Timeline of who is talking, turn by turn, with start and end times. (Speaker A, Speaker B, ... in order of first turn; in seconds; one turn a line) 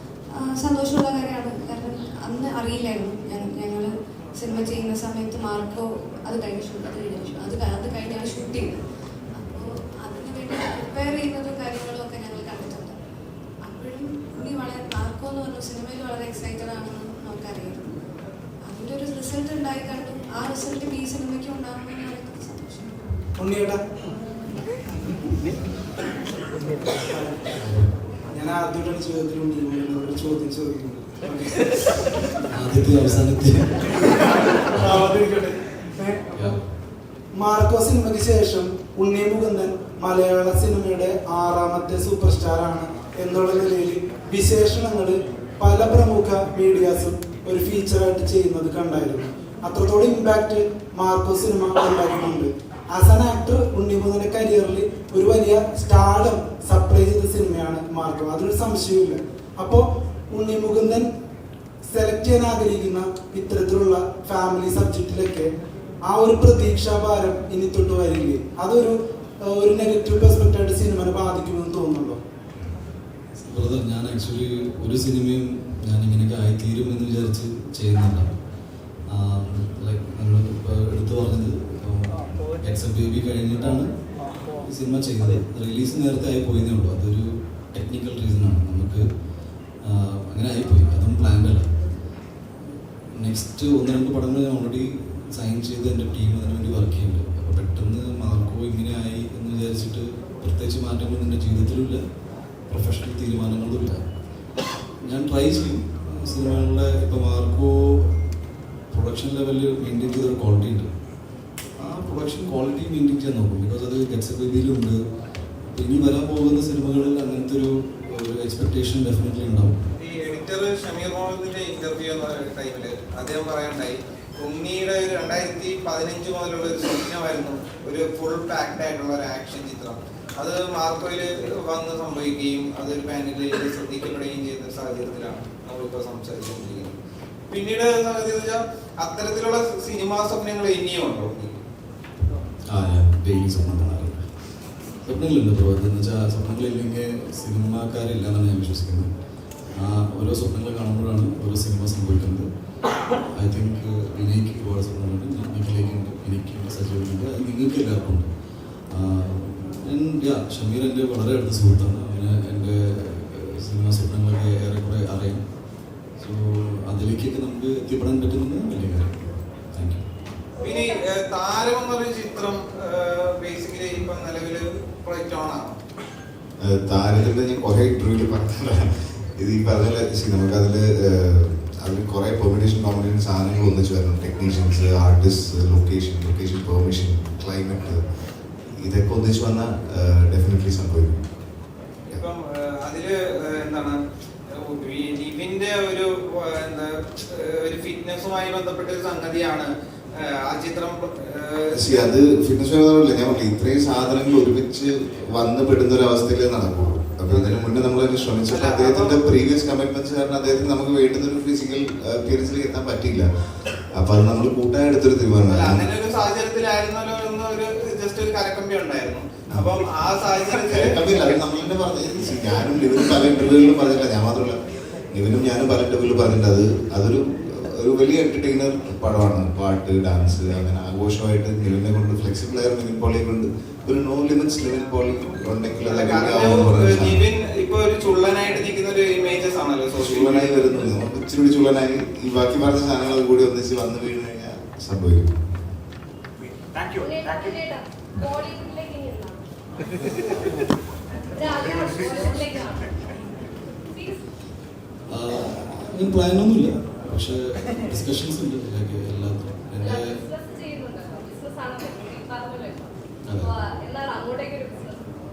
Speaker A: 0.4-8.8
Speaker A: 9.3-13.0
Speaker A: 13.7-18.0
Speaker A: 18.7-23.2
Speaker B: 23.4-23.8
Speaker C: 27.6-27.9
Speaker B: 28.3-32.0
Speaker C: 32.5-35.0
Speaker B: 34.6-36.2
Speaker C: 36.3-36.6
Speaker B: 37.4-61.1
Speaker B: 61.9-65.5
Speaker B: 66.0-72.2
Speaker C: 73.4-78.3
Speaker C: 79.1-84.0
Speaker C: 84.5-89.1
Speaker C: 89.8-91.7
Speaker C: 93.1-102.0
Speaker C: 102.7-104.0
Speaker C: 105.0-108.1
Speaker C: 108.9-110.9
Speaker C: 111.8-115.0
Speaker C: 115.7-119.8
Speaker D: 120.0-136.9
Speaker D: 137.5-141.6
Speaker C: 142.7-144.3
Speaker C: 145.0-149.1
Speaker C: 149.7-152.5
Speaker C: 153.3-158.3
Speaker C: 158.9-165.4
Speaker C: 166.2-170.1
Speaker E: 170.6-171.0
Speaker D: 170.6-175.7
Speaker F: 176.6-188.0
Speaker F: 188.8-191.2
Speaker D: 192.1-194.0
Speaker D: 194.5-202.2
Speaker F: 201.7-213.3
Speaker D: 207.3-207.7
Speaker D: 208.5-209.3
Speaker F: 213.9-215.9
Speaker D: 215.4-221.0
Speaker F: 220.7-224.6
Speaker F: 225.1-237.3
Speaker D: 235.8-240.9
Speaker F: 239.9-245.4
Speaker G: 246.4-247.6
Speaker E: 247.0-249.4
Speaker G: 251.3-253.1
Speaker E: 251.3-253.0
Speaker E: 253.9-254.2
Speaker C: 255.1-260.2
Speaker E: 259.8-265.1
Speaker C: 263.2-263.5